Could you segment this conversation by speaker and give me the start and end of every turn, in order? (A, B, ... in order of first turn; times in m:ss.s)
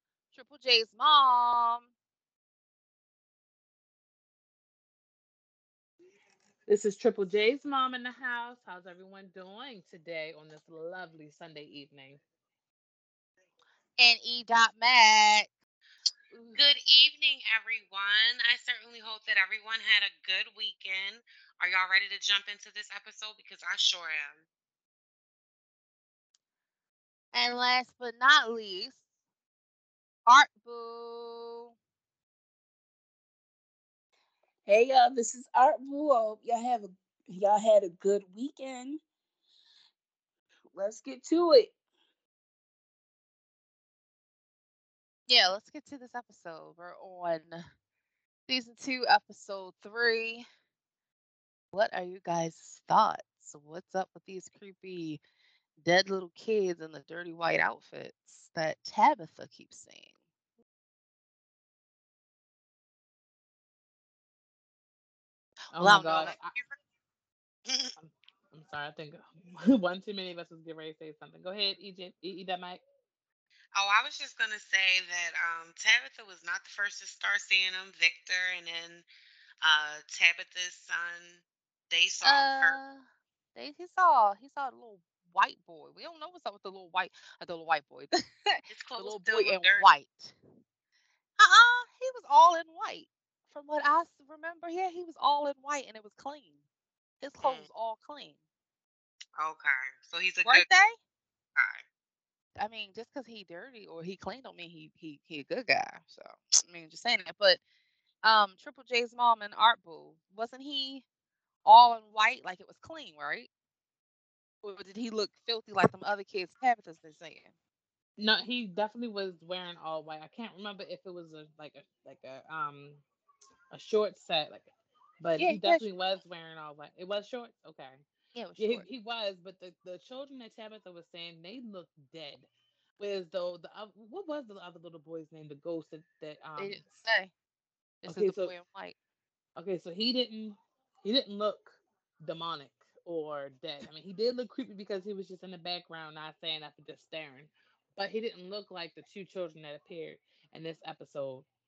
0:00.3-0:01.9 A
0:06.7-0:12.2 B
0:14.0-0:15.5 A
0:16.3-0:16.6 B
0:16.5-0:24.4 C
0:27.3-0:29.0 A
0:30.3-0:31.7 A
0:34.7-0:39.0 D
0:40.7-0:41.7 D
0:45.3-0:47.6 A
0:48.5-0:50.4 A
0:51.7-0:55.2 A
0:55.8-1:00.1 A
1:05.7-1:06.5 B
1:05.8-1:06.3 A
1:06.1-1:06.6 C
1:07.6-1:07.9 C
1:08.0-1:12.8 B
1:13.7-1:19.1 C
1:19.6-1:22.8 C
1:22.2-1:30.3 A
1:28.7-1:29.9 C
1:31.4-1:36.6 A
1:37.2-1:38.4 A
1:39.4-1:40.6 C
1:40.4-1:41.0 A
1:41.6-1:41.8 C
1:42.6-1:47.6 A
1:48.2-1:51.0 A
1:51.6-1:53.5 A
1:54.6-1:57.5 A
1:58.2-2:03.0 B
2:03.7-2:04.7 B
2:05.2-2:08.0 B
2:05.4-2:05.9 A
2:08.3-2:08.8 A
2:08.6-2:12.5 B
2:13.0-2:16.8 B
2:16.6-2:17.3 A
2:18.0-2:19.0 A
2:18.0-2:18.5 B
2:19.6-2:31.4 B